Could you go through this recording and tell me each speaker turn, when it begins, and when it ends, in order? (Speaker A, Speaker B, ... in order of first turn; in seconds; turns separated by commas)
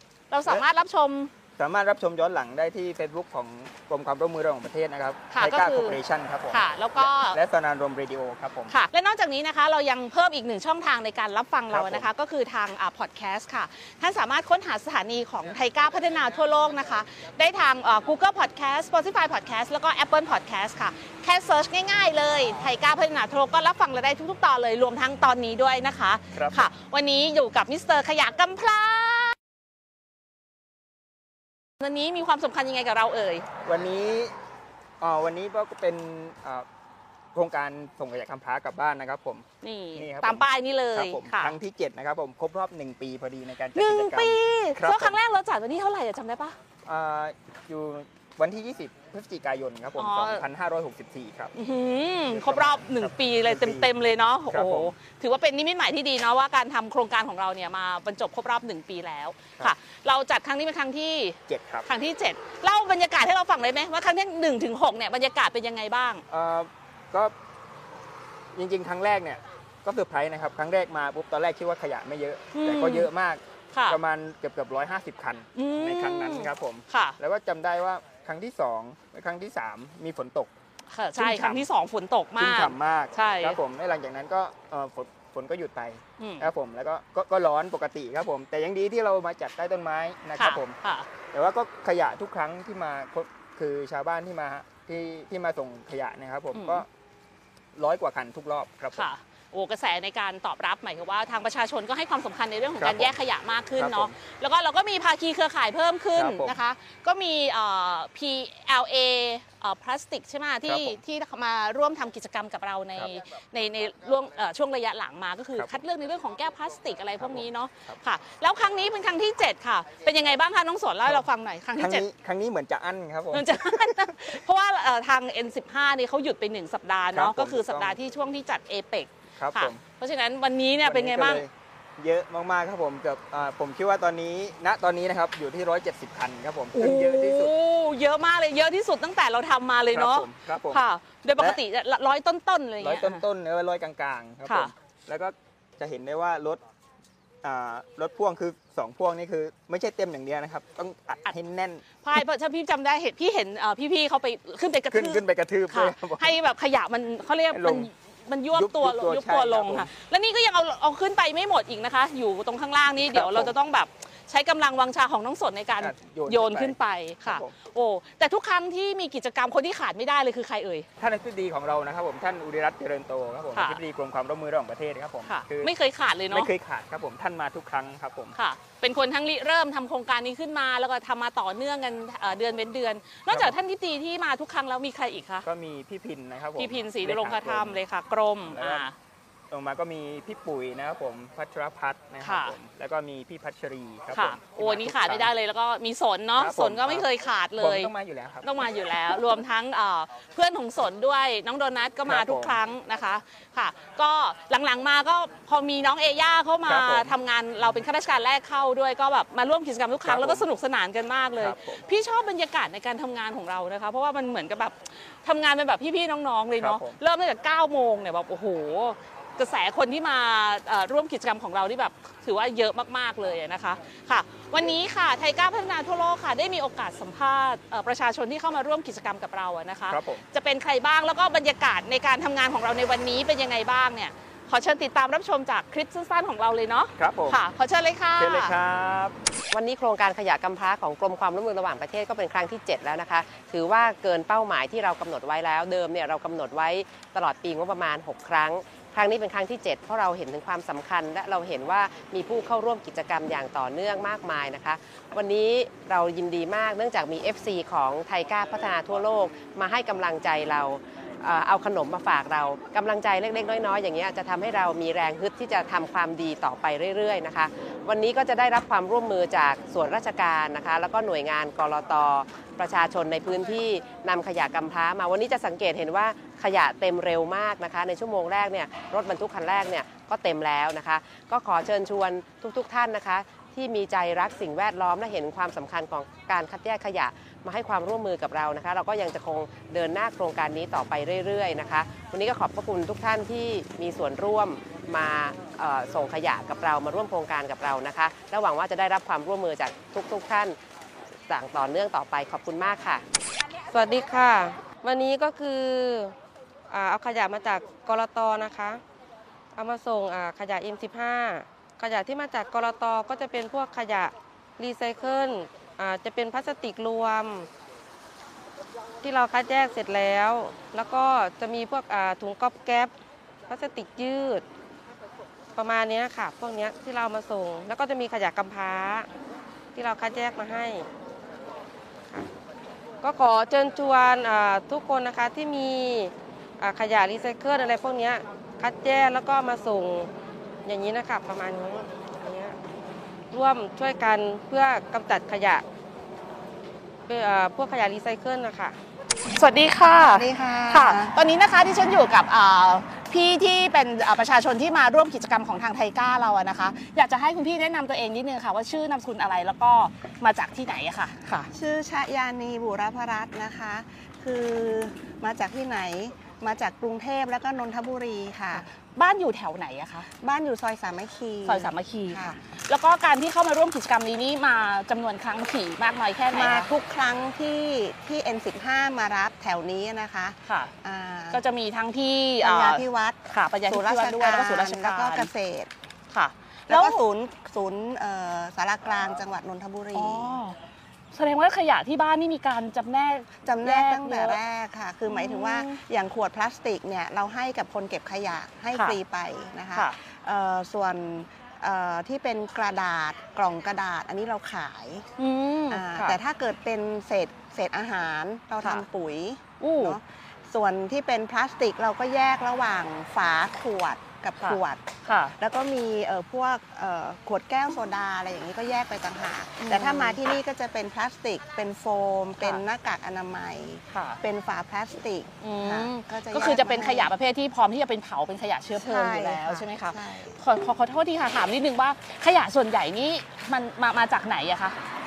Speaker A: 0.3-1.3, Speaker B: 1.6-8.7, Speaker A: 5.3-6.0, Speaker A: 6.5-7.4, Speaker A: 8.7-29.3, Speaker B: 11.7-12.1, Speaker B: 26.3-26.7, Speaker A: 31.8-33.5, Speaker B: 33.6-34.3, Speaker B: 35.0-36.6, Speaker B: 37.3-45.2, Speaker A: 39.6-41.5, Speaker A: 43.8-46.5, Speaker B: 46.9-51.5, Speaker A: 50.0-50.4, Speaker A: 51.5-66.2, Speaker B: 52.3-53.9, Speaker B: 54.5-54.9, Speaker B: 61.5-61.9, Speaker B: 66.3-67.3, Speaker B: 68.5-80.5, Speaker A: 72.5-73.1, Speaker A: 73.7-74.0, Speaker A: 75.5-77.2, Speaker A: 80.9-83.6, Speaker B: 81.2-81.7, Speaker B: 82.4-90.8, Speaker A: 86.2-86.5, Speaker A: 90.4-91.1, Speaker B: 91.3-96.9, Speaker A: 96.5-96.8, Speaker B: 97.8-99.1, Speaker A: 98.9-122.0, Speaker B: 102.8-103.1, Speaker B: 103.8-104.1, Speaker B: 106.1-106.6, Speaker B: 110.7-111.0, Speaker B: 117.2-118.0, Speaker B: 121.8-124.3, Speaker A: 123.3-131.4, Speaker B: 127.1-128.0, Speaker B: 129.3-129.8, Speaker B: 130.8-137.5, Speaker A: 136.7-143.2, Speaker B: 139.9-140.8, Speaker B: 142.8-146.6, Speaker A: 144.4-144.7, Speaker B: 147.4-151.8, Speaker A: 152.0-170.8, Speaker B: 154.9-156.3, Speaker B: 157.5-157.9, Speaker B: 158.5-159.9, Speaker B: 163.1-163.5, Speaker B: 165.8-167.5, Speaker B: 171.0-175.7, Speaker A: 173.5-173.8, Speaker A: 175.2-176.5, Speaker B: 176.3-178.3, Speaker A: 178.3-185.4, Speaker B: 183.3-183.5, Speaker B: 185.4-187.8, Speaker A: 186.6-188.9, Speaker B: 188.5-188.8, Speaker B: 189.5-195.3, Speaker A: 192.2-192.6, Speaker A: 194.1-197.9, Speaker B: 196.4-198.5, Speaker A: 198.4-238.5, Speaker B: 202.1-202.6, Speaker B: 206.7-207.1, Speaker B: 210.0-210.5, Speaker B: 211.4-211.8, Speaker B: 216.6-217.0, Speaker B: 229.9-230.2, Speaker B: 237.0-237.4, Speaker B: 238.2-239.1, Speaker C: 239.5-300.6, Speaker C: 301.3-303.0, Speaker D: 303.7-306.1, Speaker D: 306.7-308.8, Speaker D: 309.6-317.5, Speaker D: 319.0-322.9, Speaker D: 323.5-324.4, Speaker D: 325.6-329.1, Speaker D: 329.7-330.9, Speaker D: 333.0-340.1, Speaker D: 340.6-342.6, Speaker D: 343.3-345.6, Speaker D: 347.1-348.8, Speaker A: 349.3-361.5, Speaker E: 350.0-351.1, Speaker E: 361.5-368.7, Speaker A: 368.5-370.1, Speaker E: 370.2-372.4, Speaker A: 371.4-376.7, Speaker E: 376.3-381.4, Speaker A: 380.5-380.7, Speaker A: 381.3-385.3, Speaker E: 382.4-385.7, Speaker A: 386.1-387.0, Speaker E: 386.7-390.4, Speaker A: 389.9-390.6, Speaker A: 391.1-394.4, Speaker E: 393.4-405.1, Speaker A: 395.1-395.8, Speaker A: 405.2-406.2, Speaker E: 405.7-414.8, Speaker A: 409.6-410.0, Speaker A: 414.4-415.4, Speaker E: 415.4-427.1, Speaker A: 419.6-420.2, Speaker A: 423.9-424.2, Speaker A: 425.4-434.8, Speaker E: 428.8-430.4